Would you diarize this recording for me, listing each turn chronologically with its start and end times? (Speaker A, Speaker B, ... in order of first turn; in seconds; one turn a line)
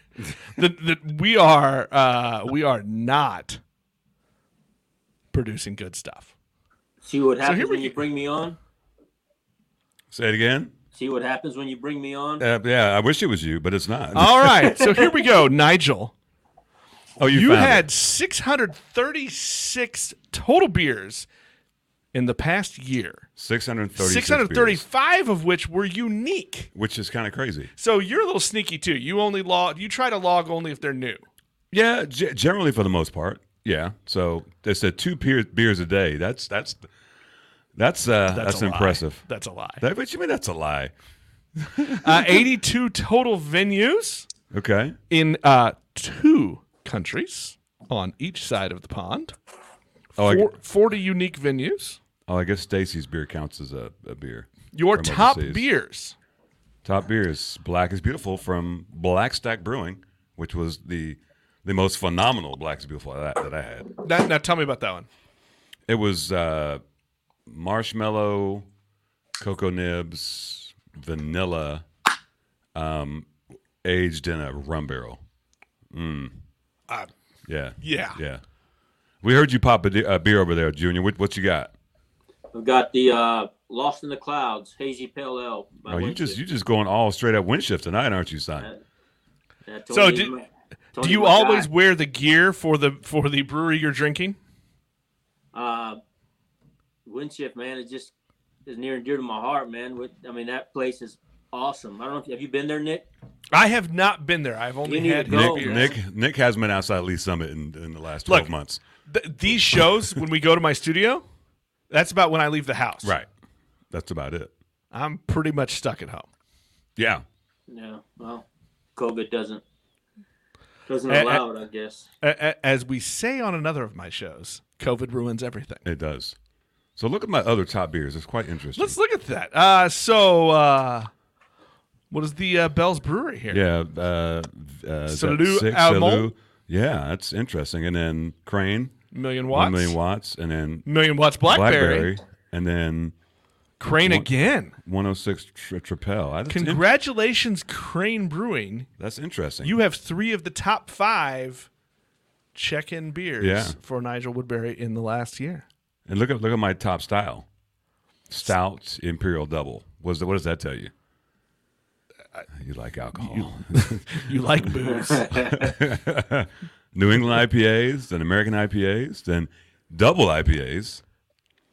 Speaker A: 0.4-3.6
Speaker A: 5.3-6.3
Speaker B: 7.0-8.6
Speaker A: 7.4-8.0
Speaker C: 10.1-10.7
Speaker B: 10.9-12.4
Speaker C: 12.4-14.7
Speaker A: 14.1-16.1
Speaker B: 14.6-15.0
Speaker C: 17.2-17.9
Speaker A: 17.3-21.3
Speaker A: 22.1-23.3
Speaker C: 23.4-24.8
Speaker A: 24.0-26.7
Speaker C: 26.7-27.7
Speaker A: 27.8-31.3
Speaker C: 31.7-36.9
Speaker C: 37.8-39.2
Speaker A: 38.3-39.8
Speaker C: 39.8-40.9
Speaker C: 41.6-42.4
Speaker A: 42.0-44.3
Speaker C: 44.5-45.0
Speaker A: 45.1-49.4
Speaker A: 50.2-52.0
Speaker C: 50.2-50.5
Speaker C: 52.3-55.7
Speaker A: 54.7-56.2
Speaker C: 56.8-63.9
Speaker A: 64.0-65.1
Speaker C: 65.9-66.8
Speaker C: 67.5-68.7
Speaker C: 69.4-71.8
Speaker C: 72.8-73.3
Speaker C: 73.8-75.2
Speaker C: 75.9-76.4
Speaker C: 77.5-78.4
Speaker A: 77.8-78.2
Speaker C: 79.2-81.7
Speaker B: 82.5-86.4
Speaker C: 85.9-88.7
Speaker B: 89.7-91.7
Speaker A: 89.9-90.3
Speaker A: 91.0-94.4
Speaker B: 95.5-96.0
Speaker B: 97.1-98.1
Speaker B: 98.7-103.1
Speaker A: 103.5-105.9
Speaker B: 104.8-106.0
Speaker C: 105.3-108.8
Speaker A: 109.1-111.2
Speaker C: 109.5-110.2
Speaker A: 111.9-113.1
Speaker C: 113.0-113.3
Speaker C: 113.9-114.5
Speaker A: 114.9-116.3
Speaker C: 117.0-117.2
Speaker B: 117.7-118.5
Speaker B: 119.0-119.6
Speaker B: 120.9-122.1
Speaker A: 121.1-121.4
Speaker A: 122.2-125.8
Speaker C: 125.8-126.4
Speaker C: 127.0-129.0
Speaker A: 128.8-131.1
Speaker A: 132.1-133.6
Speaker C: 133.5-138.9
Speaker A: 135.1-136.3
Speaker A: 139.1-140.0
Speaker C: 139.5-140.9
Speaker A: 140.9-142.2
Speaker C: 141.4-143.1
Speaker A: 143.8-144.8
Speaker C: 144.0-146.8
Speaker A: 146.5-148.9
Speaker C: 149.0-149.8
Speaker A: 149.6-151.7
Speaker A: 152.6-155.7
Speaker C: 153.4-153.8
Speaker C: 156.1-157.5
Speaker C: 158.3-160.9
Speaker C: 162.5-164.7
Speaker A: 163.2-165.6
Speaker B: 164.8-165.7
Speaker C: 165.3-171.0